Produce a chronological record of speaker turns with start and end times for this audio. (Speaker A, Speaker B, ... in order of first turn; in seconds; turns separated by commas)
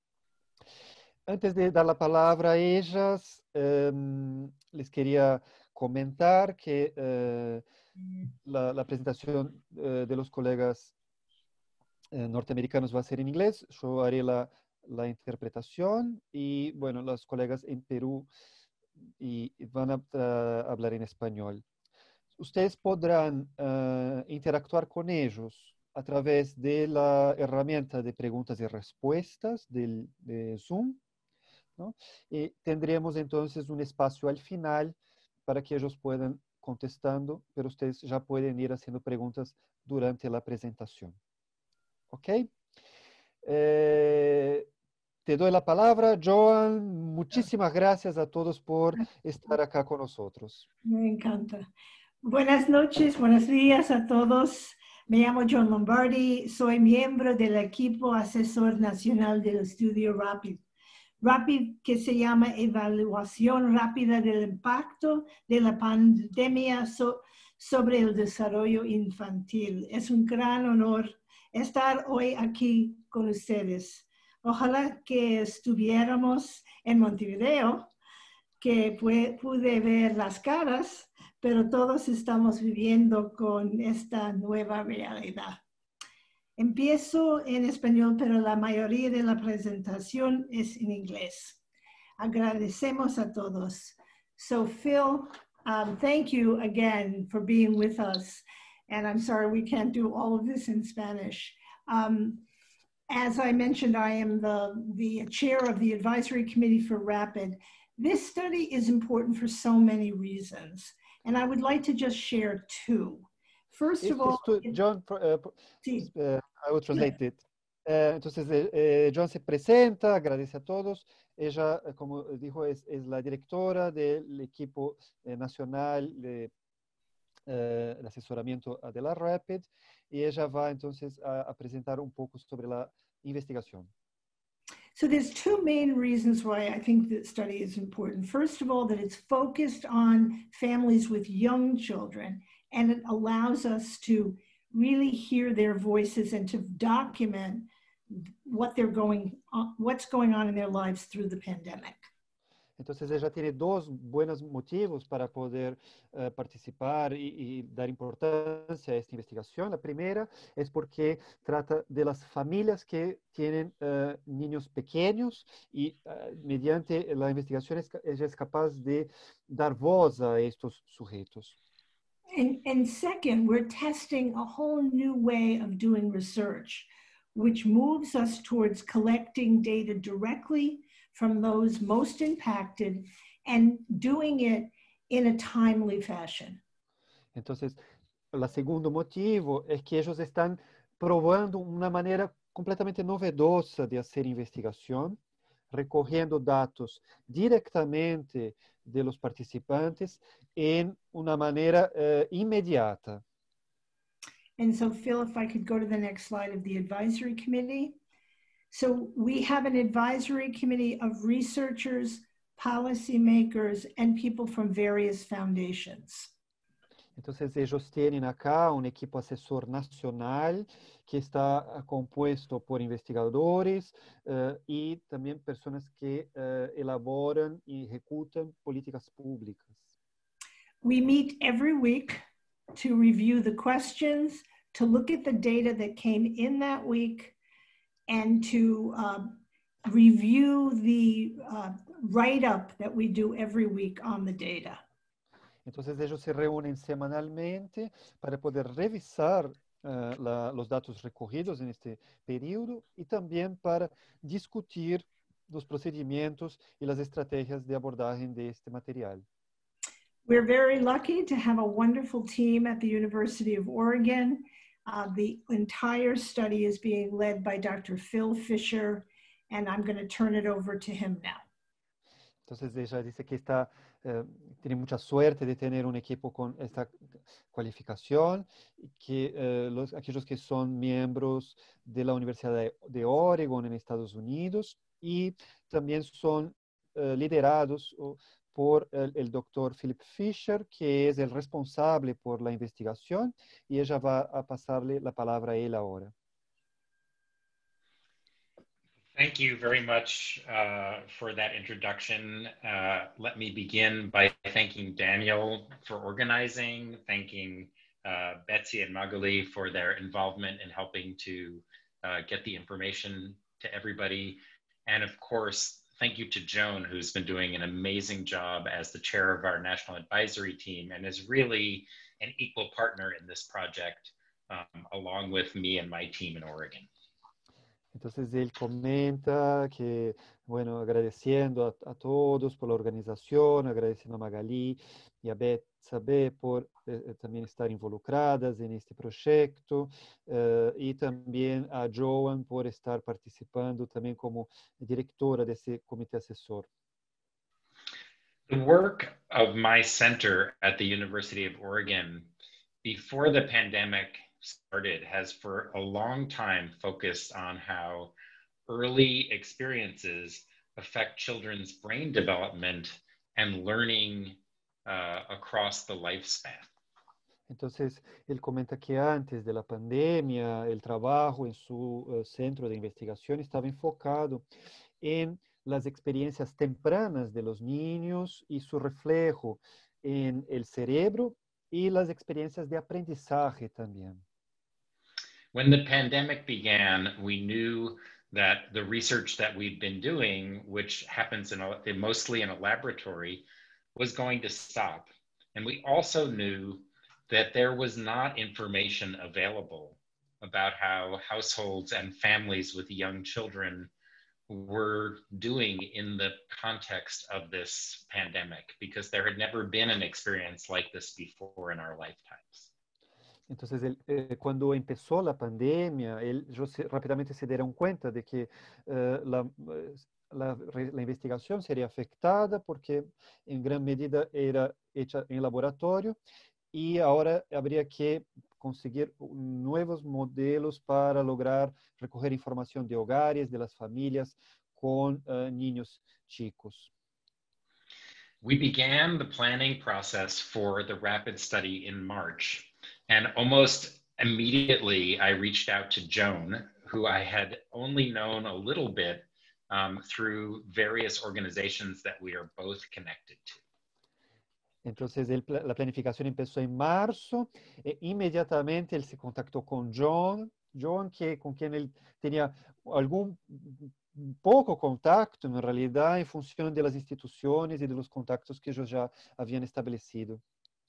Speaker A: 1.3-7.7, Speaker A: 8.4-10.9, Speaker A: 12.1-18.3, Speaker A: 19.2-21.6, Speaker A: 22.4-31.0, Speaker A: 31.8-41.2, Speaker A: 42.1-42.5, Speaker A: 43.4-44.7, Speaker A: 45.2-50.7, Speaker B: 50.8-51.7, Speaker B: 52.2-60.6, Speaker B: 61.2-77.9, Speaker B: 78.6-85.6, Speaker B: 86.6-91.6, Speaker B: 92.2-102.4, Speaker B: 103.1-114.8, Speaker A: 114.0-126.5, Speaker B: 115.8-116.1, Speaker A: 127.5-133.9, Speaker B: 134.9-152.1, Speaker A: 152.8-171.6, Speaker B: 172.3-186.6, Speaker A: 187.3-195.2, Speaker A: 195.7-203.2, Speaker B: 204.6-208.0, Speaker B: 208.7-216.3, Speaker A: 217.2-229.8, Speaker B: 230.8-232.2, Speaker B: 232.7-237.3, Speaker B: 238.1-244.8, Speaker A: 245.7-259.2, Speaker B: 260.2-271.5, Speaker A: 272.5-277.0, Speaker A: 277.5-296.1, Speaker C: 299.1-326.9, Speaker A: 327.9-346.7, Speaker C: 348.5-352.3, Speaker C: 352.8-358.1, Speaker C: 358.7-366.7, Speaker A: 367.5-374.5, Speaker A: 375.0-384.2, Speaker C: 385.5-403.9, Speaker C: 404.5-412.7, Speaker A: 413.5-426.2, Speaker A: 426.7-436.9, Speaker C: 438.4-453.6, Speaker A: 454.8-470.4